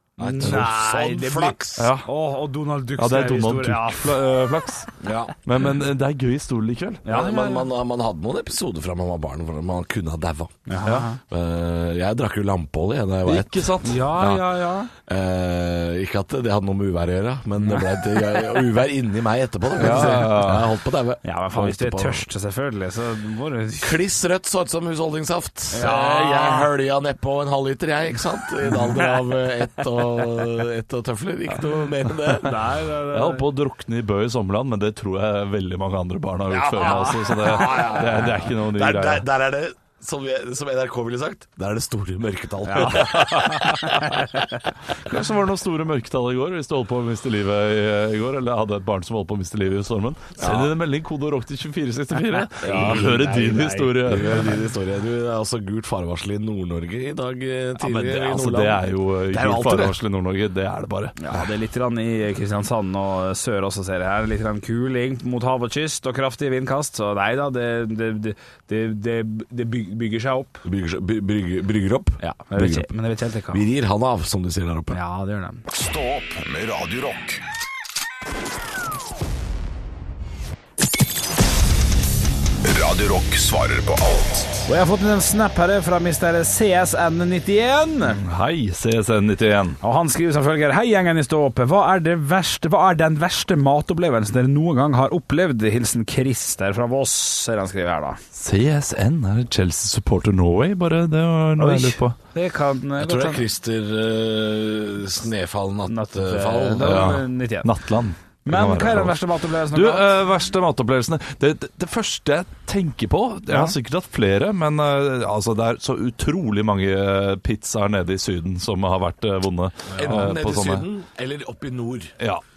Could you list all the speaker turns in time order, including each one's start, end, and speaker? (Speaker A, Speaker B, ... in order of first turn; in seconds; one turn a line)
Speaker A: 0.2-1.9
Speaker B: 0.2-4.2
Speaker C: 1.8-2.1
Speaker C: 3.0-4.9
Speaker A: 5.0-5.3
Speaker C: 5.4-7.1
Speaker B: 7.0-7.7
Speaker A: 7.1-10.7
Speaker B: 10.7-11.2
Speaker A: 11.2-14.4
Speaker C: 13.3-14.4
Speaker B: 13.8-14.9
Speaker A: 15.0-22.2
Speaker B: 19.8-20.4
Speaker C: 19.8-20.7
Speaker B: 21.2-24.0
Speaker A: 23.8-32.6
Speaker B: 25.7-26.7
Speaker B: 28.7-29.1
Speaker B: 32.3-33.5
Speaker C: 33.1-39.3
Speaker A: 36.5-44.2
Speaker B: 36.8-38.3
Speaker B: 42.7-44.4
Speaker C: 42.9-43.3
Speaker C: 45.0-54.4
Speaker A: 50.4-50.7
Speaker B: 52.6-54.4
Speaker A: 52.7-53.1
Speaker A: 54.0-60.0
Speaker C: 57.8-61.5
Speaker B: 61.2-70.6
Speaker A: 70.7-72.9
Speaker B: 72.2-73.7
Speaker A: 73.5-75.0
Speaker B: 74.9-75.6
Speaker D: 75.7-77.4
Speaker D: 82.6-84.7
Speaker B: 84.7-88.2
Speaker C: 88.0-89.8
Speaker B: 89.8-98.2
Speaker C: 98.3-102.2
Speaker B: 101.6-103.4
Speaker A: 103.0-107.1
Speaker B: 105.9-107.7
Speaker C: 106.8-120.9
Speaker B: 108.5-110.1
Speaker B: 113.5-113.8
Speaker A: 119.9-122.2